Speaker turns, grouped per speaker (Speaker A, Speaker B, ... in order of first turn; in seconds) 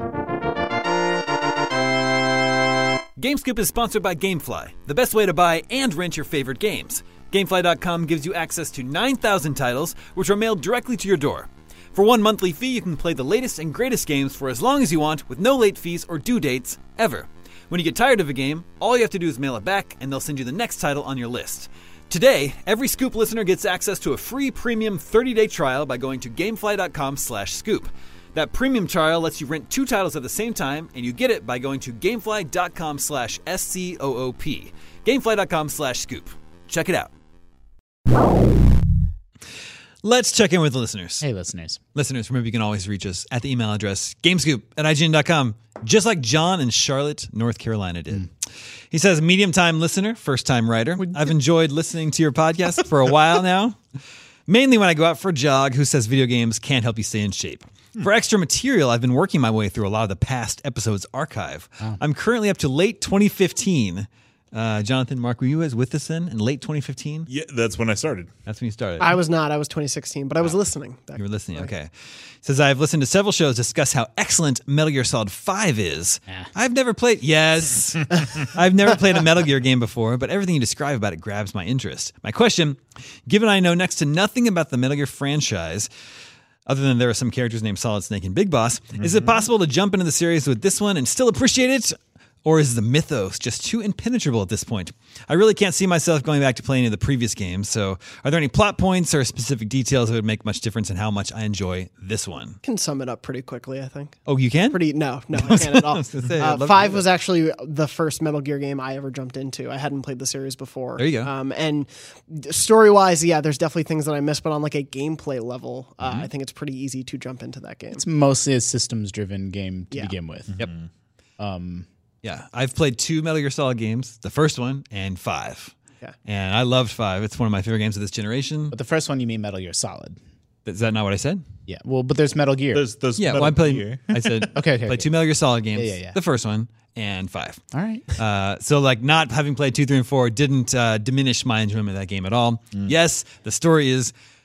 Speaker A: 3.2-37.1, 40.0-41.2, 41.9-48.3, 48.9-53.8, 54.5-67.3, 68.5-69.2, 71.2-71.9, 72.4-85.9, 86.7-102.6, 104.3-104.8, 105.4-107.0, 111.0-111.3, 122.2-128.8, 130.7-131.4, 133.2-137.6, 138.2-144.1
Speaker B: 41.2-41.8, 117.9-120.5, 121.4-121.9, 128.7-130.2, 131.7-132.9, 134.5-135.1, 135.8-136.2, 137.7-138.1
Speaker C: 67.3-68.3, 89.0-89.4, 120.5-120.9, 132.7-134.3
Speaker D: 69.0-71.7, 102.6-118.0